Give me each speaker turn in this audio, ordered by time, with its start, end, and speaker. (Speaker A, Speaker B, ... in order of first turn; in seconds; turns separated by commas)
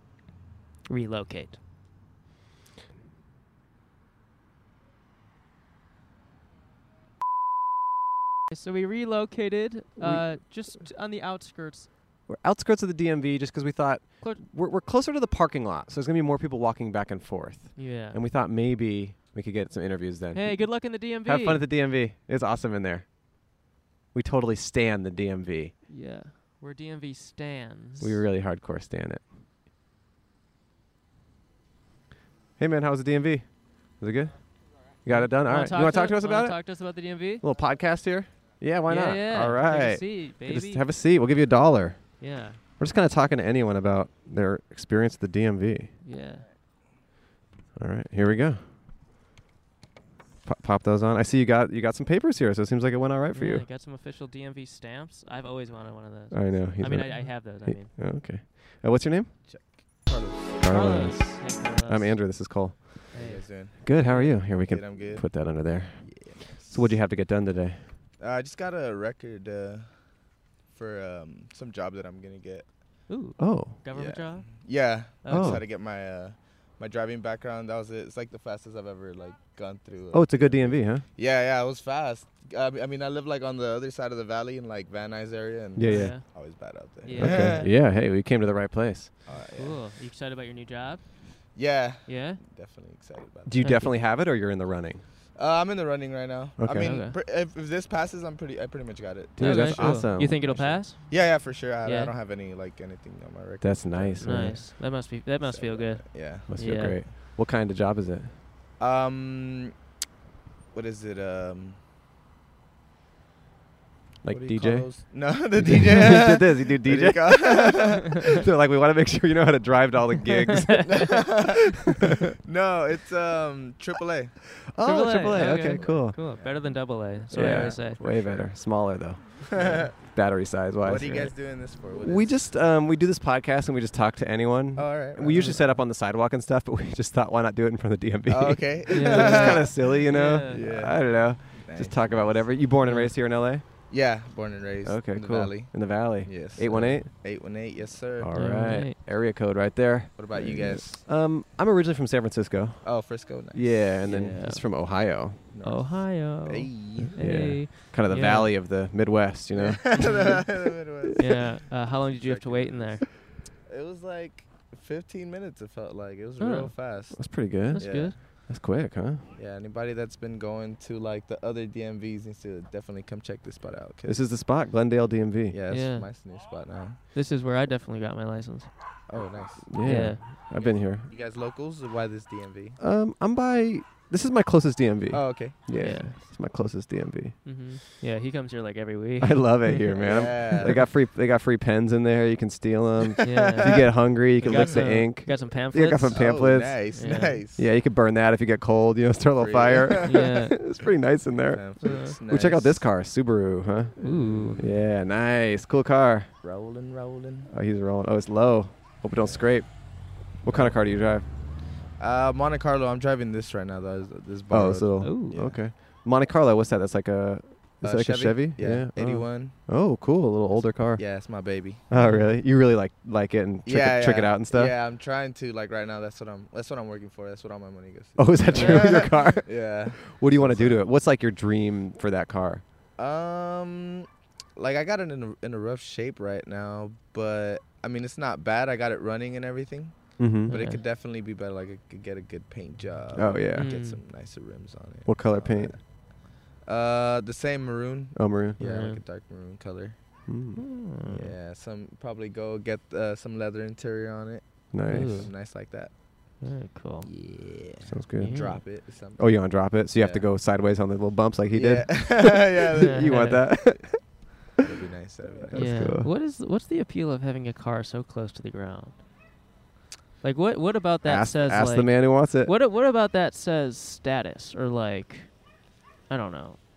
Speaker A: 0.9-1.6, Speaker A: 8.5-11.9, Speaker B: 10.0-10.3, Speaker B: 12.3-23.1, Speaker A: 17.8-18.2, Speaker A: 20.3-21.7, Speaker B: 24.1-25.8, Speaker A: 25.9-28.2, Speaker B: 28.0-29.2, Speaker B: 32.6-34.4, Speaker B: 35.0-36.6, Speaker A: 35.1-37.4, Speaker B: 37.4-45.9, Speaker A: 38.9-40.8, Speaker A: 42.2-42.6, Speaker A: 46.0-46.5, Speaker B: 47.8-48.6, Speaker B: 50.5-53.7, Speaker A: 53.3-57.9, Speaker B: 56.3-59.4, Speaker C: 59.5-60.6, Speaker B: 60.6-63.1, Speaker A: 60.6-62.3, Speaker A: 63.1-64.4, Speaker C: 63.1-67.0, Speaker B: 63.8-67.8, Speaker C: 68.2-73.0, Speaker A: 73.1-75.6, Speaker B: 73.4-73.8, Speaker C: 73.9-87.7, Speaker B: 75.3-75.6, Speaker B: 80.1-81.0, Speaker B: 85.8-86.2, Speaker A: 85.8-86.2, Speaker A: 87.0-87.7, Speaker B: 87.2-89.1, Speaker C: 89.3-89.8, Speaker A: 89.6-91.0, Speaker C: 91.5-93.9, Speaker A: 92.1-92.4, Speaker B: 93.5-95.0, Speaker A: 93.6-93.9, Speaker C: 95.4-104.8, Speaker B: 96.6-97.0, Speaker A: 96.8-97.2, Speaker B: 99.4-100.8, Speaker A: 99.4-102.1, Speaker B: 103.6-104.6, Speaker A: 104.2-107.0, Speaker C: 105.4-106.5, Speaker B: 106.5-108.3, Speaker C: 108.8-109.8, Speaker C: 110.7-111.8, Speaker B: 114.2-122.2, Speaker C: 114.3-118.3, Speaker A: 120.5-121.0, Speaker C: 120.8-124.4, Speaker B: 124.7-126.2, Speaker A: 124.8-128.0, Speaker C: 125.3-128.5, Speaker B: 127.3-131.3, Speaker C: 129.5-129.9, Speaker C: 130.8-132.4, Speaker B: 132.0-143.7, Speaker C: 134.8-135.8, Speaker C: 138.3-142.6, Speaker A: 138.9-140.6, Speaker A: 142.9-143.1, Speaker C: 143.9-148.7, Speaker B: 144.8-147.1, Speaker B: 148.2-155.4, Speaker A: 148.3-149.0, Speaker C: 150.2-151.1, Speaker C: 152.8-154.4, Speaker A: 154.1-154.6, Speaker A: 155.4-158.5, Speaker C: 155.5-157.2, Speaker B: 157.2-161.1, Speaker C: 159.5-168.2, Speaker A: 159.9-160.4, Speaker A: 161.2-163.0, Speaker A: 166.4-166.7, Speaker B: 167.1-169.2, Speaker A: 167.7-168.2, Speaker C: 169.3-174.2, Speaker B: 174.1-175.6, Speaker C: 175.5-177.0, Speaker A: 175.7-176.1, Speaker A: 177.1-178.7, Speaker C: 179.1-179.8, Speaker B: 179.7-181.1, Speaker A: 179.8-180.2, Speaker C: 180.5-182.8, Speaker B: 182.8-187.4, Speaker C: 185.1-185.6, Speaker A: 185.8-186.1, Speaker A: 187.4-189.9, Speaker B: 189.2-206.3, Speaker C: 190.0-190.8, Speaker C: 193.2-193.8, Speaker A: 193.2-197.4, Speaker C: 194.4-194.8, Speaker C: 196.1-197.7, Speaker C: 199.4-200.3, Speaker A: 200.1-200.6, Speaker C: 201.5-202.9, Speaker A: 201.8-202.2, Speaker C: 204.0-204.8, Speaker A: 204.0-204.6, Speaker C: 206.4-207.5, Speaker B: 207.5-211.3, Speaker C: 209.1-210.8, Speaker C: 211.9-215.6, Speaker B: 214.5-221.0, Speaker A: 215.0-215.3, Speaker C: 217.8-219.6, Speaker C: 221.0-222.0, Speaker B: 221.9-224.7, Speaker A: 221.9-222.3, Speaker C: 223.7-230.8, Speaker B: 228.2-232.6, Speaker A: 228.5-229.2, Speaker C: 233.0-250.0, Speaker B: 240.2-240.6, Speaker A: 240.5-240.8, Speaker B: 243.2-243.7, Speaker A: 243.5-244.0, Speaker B: 245.1-245.8, Speaker B: 248.2-248.6, Speaker A: 248.6-249.0, Speaker B: 250.3-250.6, Speaker A: 250.6-251.3, Speaker C: 251.1-255.9, Speaker B: 254.7-255.3, Speaker A: 254.9-255.3, Speaker A: 256.4-257.1, Speaker C: 257.0-260.3, Speaker B: 257.9-264.1, Speaker A: 258.2-258.6, Speaker C: 261.5-263.8, Speaker A: 262.8-263.5, Speaker C: 264.6-265.7, Speaker B: 265.4-266.1, Speaker A: 265.5-269.0, Speaker A: 270.2-275.5, Speaker B: 271.1-272.5, Speaker A: 276.1-276.6